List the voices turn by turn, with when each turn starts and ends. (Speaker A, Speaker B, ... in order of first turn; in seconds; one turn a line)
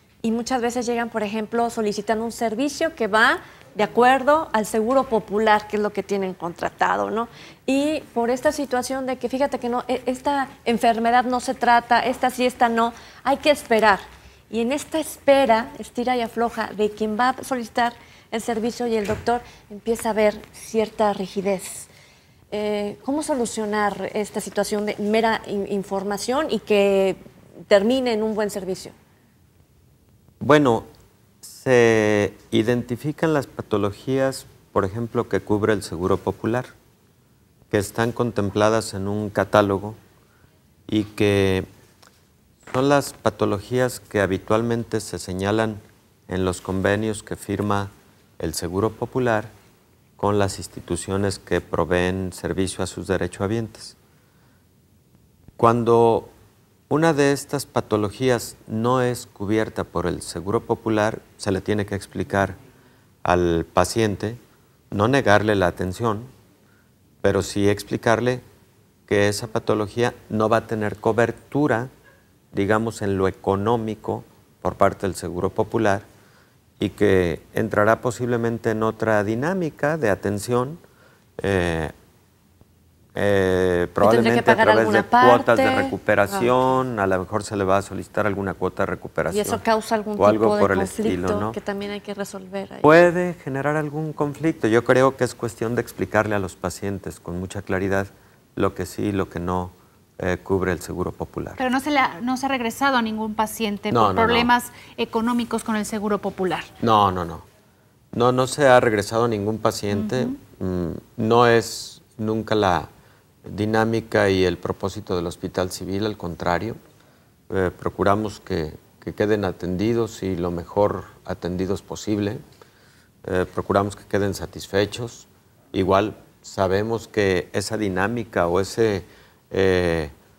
Speaker A: 0.2-21.9
Speaker A: 22.5-28.9
Speaker B: 30.4-30.9
Speaker B: 31.4-36.7
Speaker B: 37.7-40.0
Speaker B: 40.9-41.7
Speaker B: 42.6-49.5
Speaker B: 50.2-53.9
Speaker B: 55.6-56.3
Speaker B: 56.9-62.6
Speaker B: 63.2-64.4
Speaker B: 64.9-66.3
Speaker B: 67.2-68.4
Speaker B: 69.1-71.9
Speaker B: 72.5-76.1
Speaker B: 76.8-80.8
Speaker B: 81.4-81.9
Speaker B: 83.1-89.6
Speaker A: 84.0-86.8
Speaker A: 89.3-92.9
Speaker B: 90.2-91.6
Speaker B: 92.8-101.6
Speaker C: 101.6-106.7
Speaker B: 103.9-104.5
Speaker B: 106.8-107.5
Speaker B: 108.1-112.9
Speaker C: 109.9-110.4
Speaker B: 113.4-116.8
Speaker B: 117.5-122.4
Speaker B: 123.2-130.1